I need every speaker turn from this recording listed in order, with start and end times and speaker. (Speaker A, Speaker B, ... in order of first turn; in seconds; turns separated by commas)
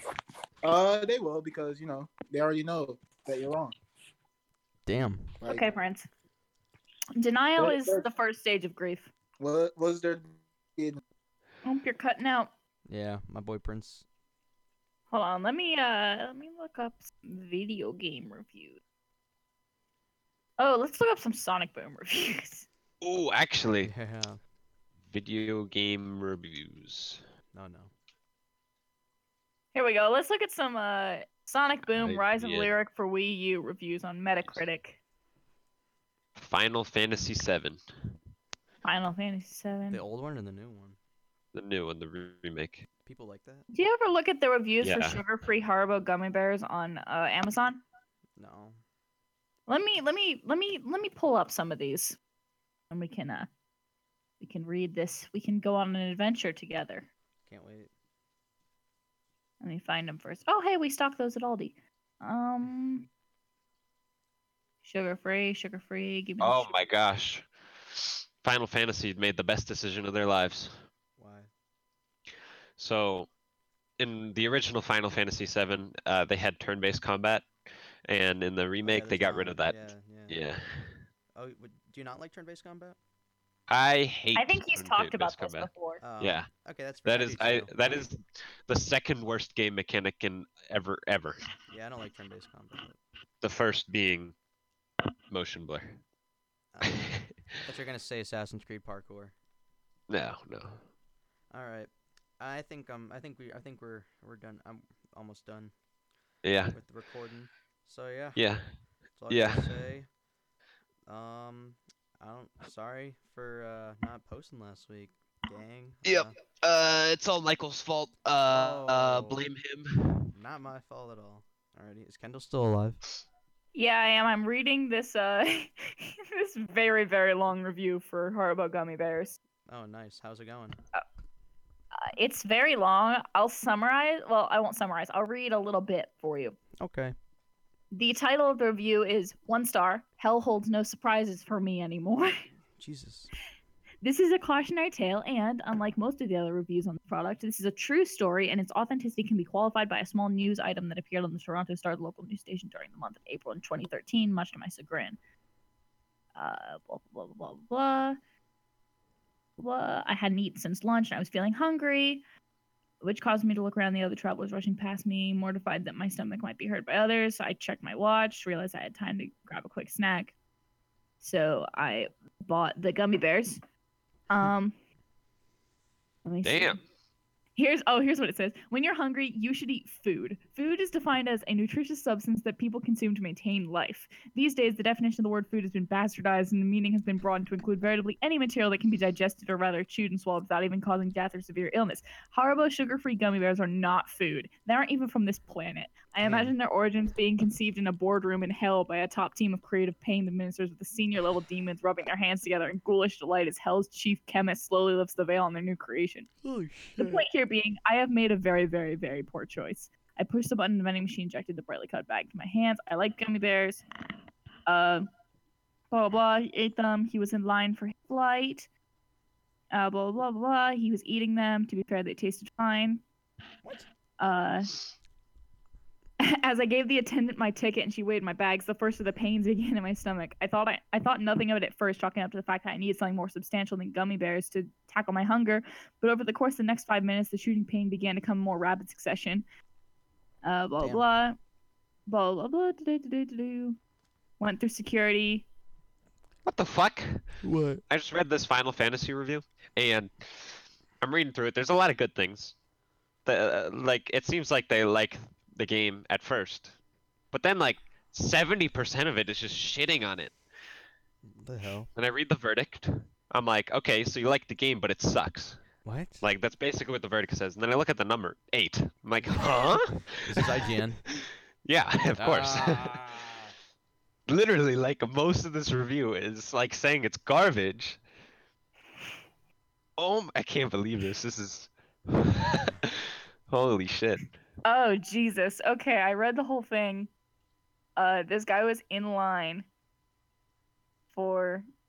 Speaker A: 0.6-3.7, Speaker B: 4.9-5.4, Speaker C: 5.4-6.1, Speaker C: 7.2-9.1, Speaker A: 7.6-8.0, Speaker A: 9.4-11.0, Speaker C: 11.6-12.5, Speaker B: 12.9-14.1, Speaker C: 15.1-18.8, Speaker C: 20.6-22.7, Speaker D: 23.0-23.9, Speaker B: 23.8-24.4, Speaker D: 25.1-27.2, Speaker B: 27.5-27.9, Speaker C: 29.7-35.0, Speaker D: 31.9-32.7, Speaker D: 36.4-37.8, Speaker C: 38.9-40.0, Speaker B: 39.9-41.0, Speaker D: 41.5-42.9, Speaker B: 43.0-43.6, Speaker C: 43.7-47.8, Speaker D: 44.8-45.2, Speaker B: 48.4-48.8, Speaker C: 49.7-52.2, Speaker C: 52.9-53.5, Speaker C: 54.4-57.1, Speaker B: 57.5-57.9, Speaker C: 59.6-63.1, Speaker C: 64.8-66.8, Speaker D: 66.4-70.8, Speaker B: 71.2-71.5, Speaker D: 72.8-73.3, Speaker D: 74.0-77.5, Speaker D: 78.1-81.0, Speaker B: 78.8-80.4, Speaker B: 81.4-83.0, Speaker D: 83.7-86.5, Speaker C: 84.3-86.0, Speaker B: 86.0-88.1, Speaker D: 87.0-91.4, Speaker B: 91.7-93.0, Speaker D: 93.4-94.3, Speaker D: 95.3-96.0, Speaker B: 96.7-99.3, Speaker D: 96.8-97.3, Speaker D: 100.1-100.8, Speaker B: 101.5-105.7, Speaker D: 106.4-106.8, Speaker B: 106.7-108.4, Speaker D: 108.4-108.6, Speaker B: 109.2-110.1, Speaker D: 109.3-109.7, Speaker B: 111.1-116.3, Speaker D: 116.0-120.2, Speaker B: 118.5-119.4, Speaker B: 120.3-123.0, Speaker C: 123.7-129.4, Speaker B: 129.7-130.8, Speaker C: 132.0-136.6, Speaker B: 136.8-137.1, Speaker C: 137.9-142.5, Speaker B: 142.8-143.3, Speaker C: 144.0-155.2, Speaker C: 156.4-158.2, Speaker C: 159.6-162.2, Speaker C: 163.0-170.3, Speaker C: 171.2-173.6, Speaker C: 174.3-174.8, Speaker C: 176.2-176.8, Speaker D: 176.4-176.8, Speaker C: 177.6-206.3, Speaker B: 196.2-196.5, Speaker B: 206.4-207.3, Speaker C: 207.0-213.8, Speaker C: 214.7-215.1, Speaker C: 215.9-218.7, Speaker C: 219.7-223.0, Speaker C: 224.2-224.7, Speaker C: 226.2-239.4, Speaker C: 240.4-241.4, Speaker B: 240.8-241.1, Speaker C: 242.1-243.8, Speaker C: 244.4-245.5, Speaker D: 246.4-247.2, Speaker B: 247.4-247.8, Speaker D: 247.9-252.6, Speaker D: 253.2-256.8, Speaker D: 257.3-260.4, Speaker B: 261.3-261.9, Speaker D: 261.9-265.6, Speaker B: 265.9-266.2, Speaker D: 266.2-270.6, Speaker B: 270.1-271.0, Speaker D: 271.6-273.0, Speaker B: 272.2-273.4, Speaker D: 274.3-278.0, Speaker D: 280.0-284.4, Speaker C: 284.6-287.1, Speaker C: 288.0-289.6, Speaker C: 291.1-291.6